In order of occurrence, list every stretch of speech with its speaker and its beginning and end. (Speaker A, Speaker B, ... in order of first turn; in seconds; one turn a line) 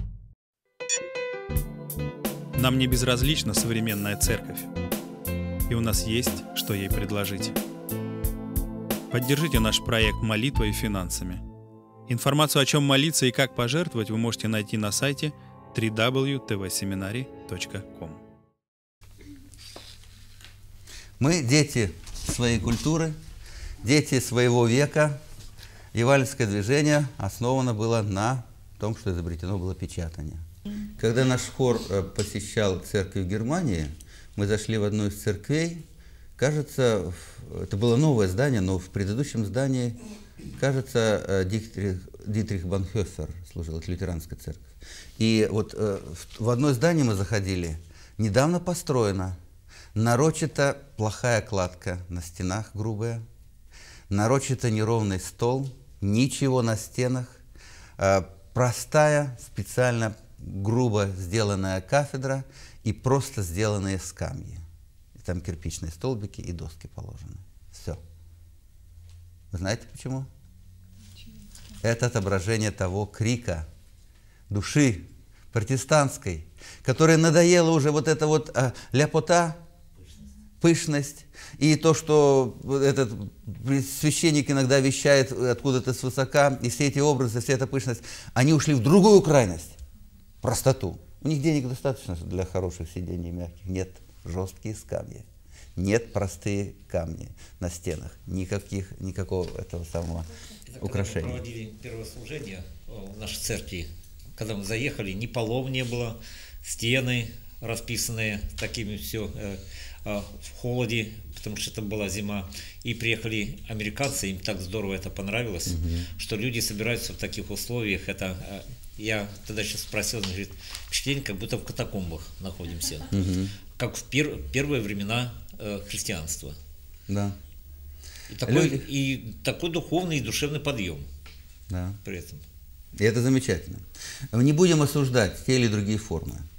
Speaker A: 2.5-4.7
Speaker A: 5.7-7.6
Speaker A: 9.1-11.4
Speaker A: 12.1-18.2
Speaker B: 21.2-23.1
Speaker B: 23.8-25.2
Speaker B: 25.9-35.8
Speaker B: 36.4-40.0
Speaker B: 40.6-49.4
Speaker B: 49.9-53.2
Speaker B: 54.1-57.4
Speaker B: 58.0-64.6
Speaker B: 65.2-68.0
Speaker B: 69.5-70.3
Speaker B: 71.8-73.7
Speaker B: 74.5-79.6
Speaker B: 80.6-89.8
Speaker B: 90.4-95.2
Speaker B: 95.8-101.5
Speaker C: 100.7-123.2
Speaker B: 115.7-116.1
Speaker B: 123.1-123.5
Speaker C: 123.7-126.6
Speaker B: 127.1-127.3
Speaker C: 128.3-131.1
Speaker B: 128.4-128.8
Speaker B: 131.7-132.0
Speaker C: 132.0-132.4
Speaker B: 132.9-136.4